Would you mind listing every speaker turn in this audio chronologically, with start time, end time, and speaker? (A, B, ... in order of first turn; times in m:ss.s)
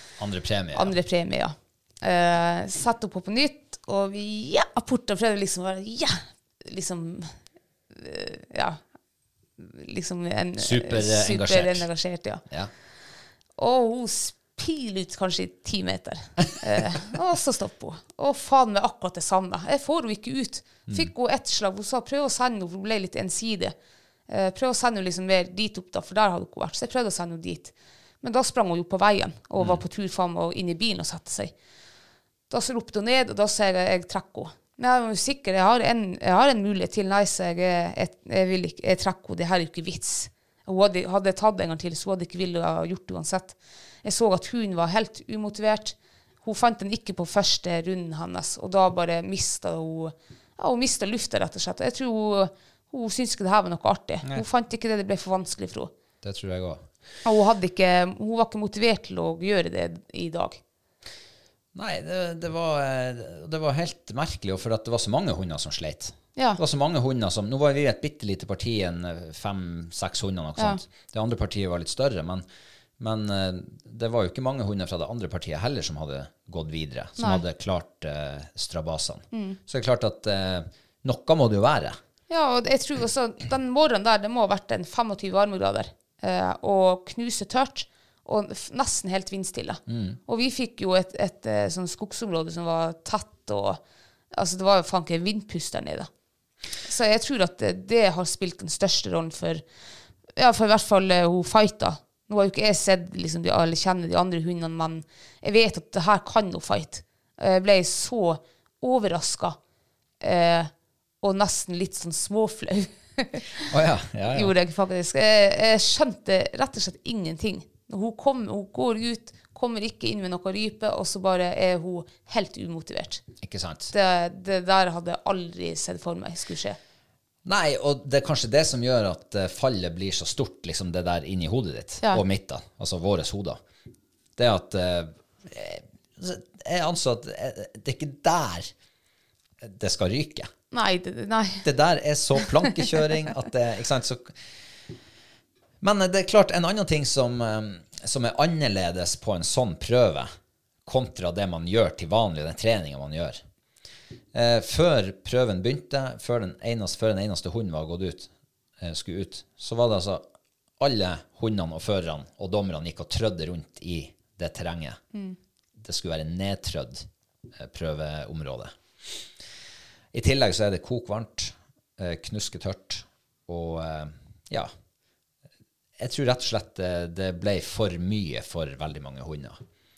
0:00.2-0:01.0 A
0:00.7-0:07.3 B
0:07.9-0:08.8 B
0:09.6-0:12.4 B
0:10.6-0:11.9 A
0:12.4-0:12.7 A
0:13.6-0:23.7 B
0:24.3-0:31.5 B
0:29.6-0:29.8 A
0:32.5-0:55.9 B
0:56.2-0:56.8 A
0:57.2-1:00.6 B
1:01.7-1:12.4 A
1:13.0-1:22.0 A
1:17.2-1:17.4 B
1:19.3-1:19.6 B
1:22.3-1:33.8 B
1:29.9-1:30.2 A
1:34.3-1:36.1 B
1:36.8-1:39.6 B
1:40.4-1:49.6 B
1:50.2-1:53.7 B
1:53.7-1:54.5 A
1:54.3-2:03.2 B
2:03.4-2:03.9 A
2:03.9-2:06.8 B
2:07.4-2:13.6 A
2:14.4-2:18.7 A
2:19.6-2:20.5 A
2:20.7-2:21.6 B
2:21.6-2:24.4 A
2:22.4-2:22.7 B
2:25.8-2:30.3 A
2:30.8-2:33.4 A
2:34.3-2:40.2 A
2:40.8-2:45.0 A
2:45.8-2:49.3 A
2:50.1-2:54.7 A
2:56.0-2:59.6 A